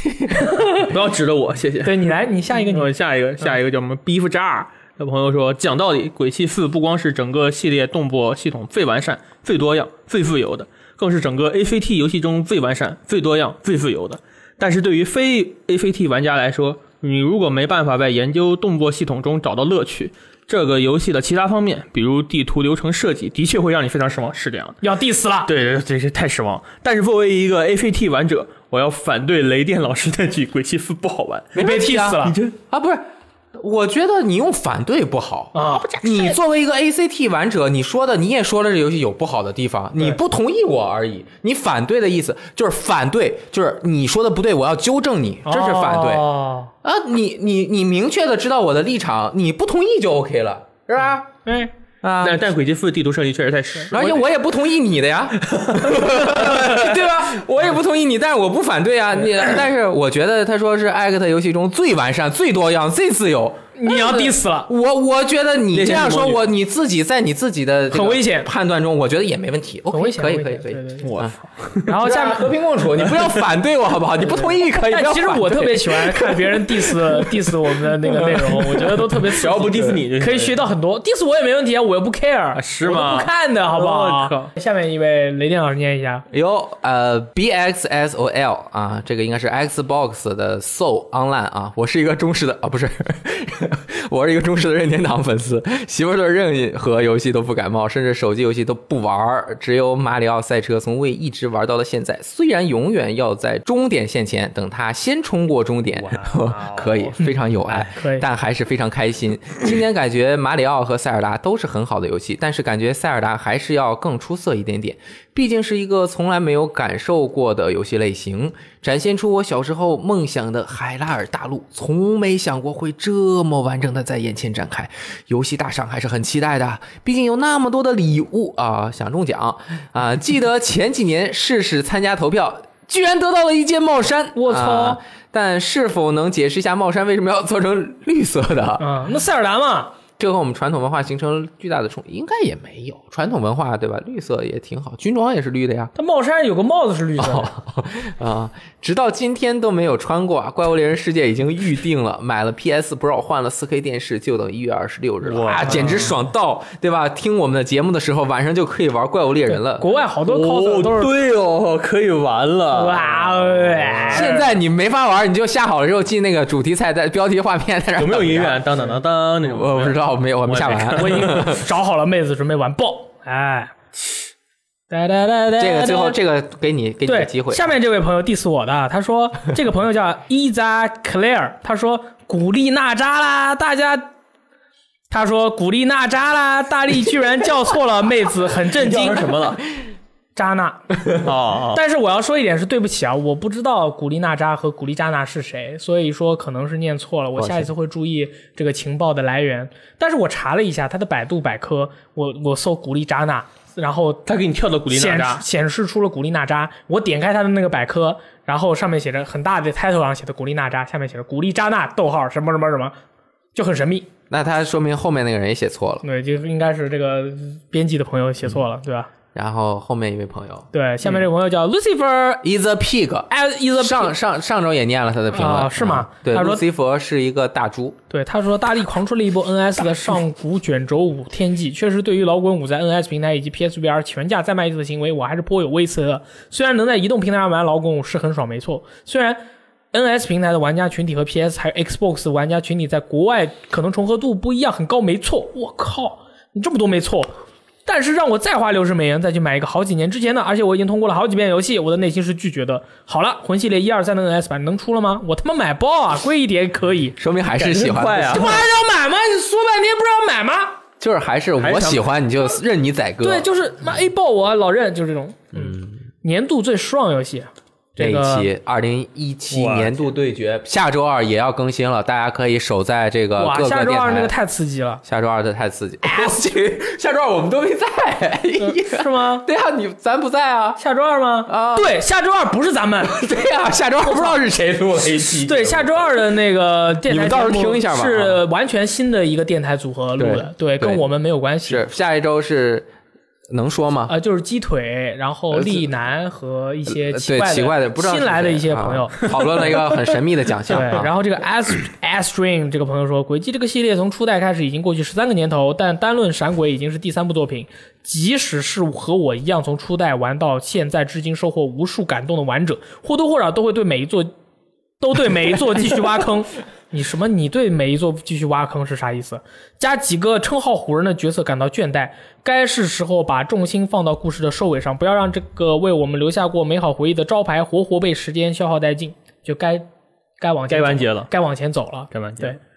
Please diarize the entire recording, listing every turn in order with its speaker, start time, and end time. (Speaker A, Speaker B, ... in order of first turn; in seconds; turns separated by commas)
Speaker A: 0.3-0.9, Speaker B: 0.7-24.8, Speaker A: 1.8-3.5, Speaker A: 24.8-25.5, Speaker B: 25.5-31.6, Speaker C: 31.5-33.0, Speaker A: 31.6-32.4, Speaker B: 32.2-32.5, Speaker C: 33.6-46.3, Speaker A: 35.5-35.9, Speaker B: 35.7-36.4, Speaker A: 45.5-46.7, Speaker C: 46.8-51.3, Speaker A: 51.5-51.7, Speaker C: 52.0-52.5, Speaker B: 52.2-54.2, Speaker C: 53.9-71.3, Speaker B: 55.5-57.1, Speaker A: 63.8-64.7, Speaker B: 65.7-66.4, Speaker A: 67.9-68.5, Speaker A: 69.9-71.1, Speaker B: 71.0-71.9, Speaker A: 71.9-72.5, Speaker C: 71.9-76.6, Speaker B: 73.0-73.3, Speaker A: 74.3-86.2, Speaker B: 78.2-80.6, Speaker C: 79.6-80.0, Speaker B: 82.5-84.5, Speaker C: 86.3-138.9, Speaker B: 106.0-107.2, Speaker A: 107.2-108.3, Speaker A: 134.3-135.0, Speaker A: 138.8-139.9, Speaker C: 140.2-145.9, Speaker A: 145.9-147.5, Speaker C: 147.2-159.9, Speaker B: 155.2-156.1, Speaker A: 155.7-156.1, Speaker A: 159.5-161.1, Speaker B: 160.3-164.3, Speaker A: 162.7-164.5, Speaker C: 164.1-168.7, Speaker B: 168.0-171.4, Speaker C: 169.4-171.6, Speaker A: 171.0-173.7, Speaker A: 174.9-176.2, Speaker C: 175.6-177.7, Speaker A: 177.1-184.1, Speaker A: 185.1-189.4, Speaker B: 188.7-189.6, Speaker A: 190.4-204.2, Speaker B: 191.2-191.8, Speaker C: 197.4-197.7, Speaker B: 204.3-205.4, Speaker A: 204.9-212.9, Speaker A: 213.6-214.1, Speaker C: 214.3-216.0, Speaker A: 216.0-219.1, Speaker C: 219.3-221.1, Speaker A: 220.7-222.4, Speaker C: 222.4-228.0, Speaker A: 223.3-224.1, Speaker A: 225.3-226.6, Speaker A: 228.1-239.4, Speaker A: 239.9-247.3, Speaker A: 247.9-257.2, Speaker C: 257.2-258.6, Speaker B: 257.6-258.7, Speaker A: 258.3-260.8, Speaker C: 261.0-263.5, Speaker B: 261.6-262.0, Speaker A: 263.2-268.5, Speaker C: 265.6-265.9, Speaker C: 268.0-274.3, Speaker B: 269.5-270.0, Speaker A: 273.4-275.0, Speaker C: 275.0-280.8, Speaker A: 278.6-279.5, Speaker A: 280.8-283.2, Speaker C: 281.5-281.9, Speaker C: 283.0-286.1, Speaker A: 284.1-284.4, Speaker A: 285.3-291.8, Speaker C: 287.1-288.4, Speaker C: 290.2-291.1, Speaker C: 291.6-292.9, Speaker C: 293.5-294.1, Speaker A: 294.1-299.7, Speaker C: 295.5-295.9, Speaker C: 296.9-301.1, Speaker A: 300.7-314.3, Speaker A: 315.0-329.9, Speaker A: 330.4-332.6, Speaker B: 330.7-331.3, Speaker B: 332.1-332.6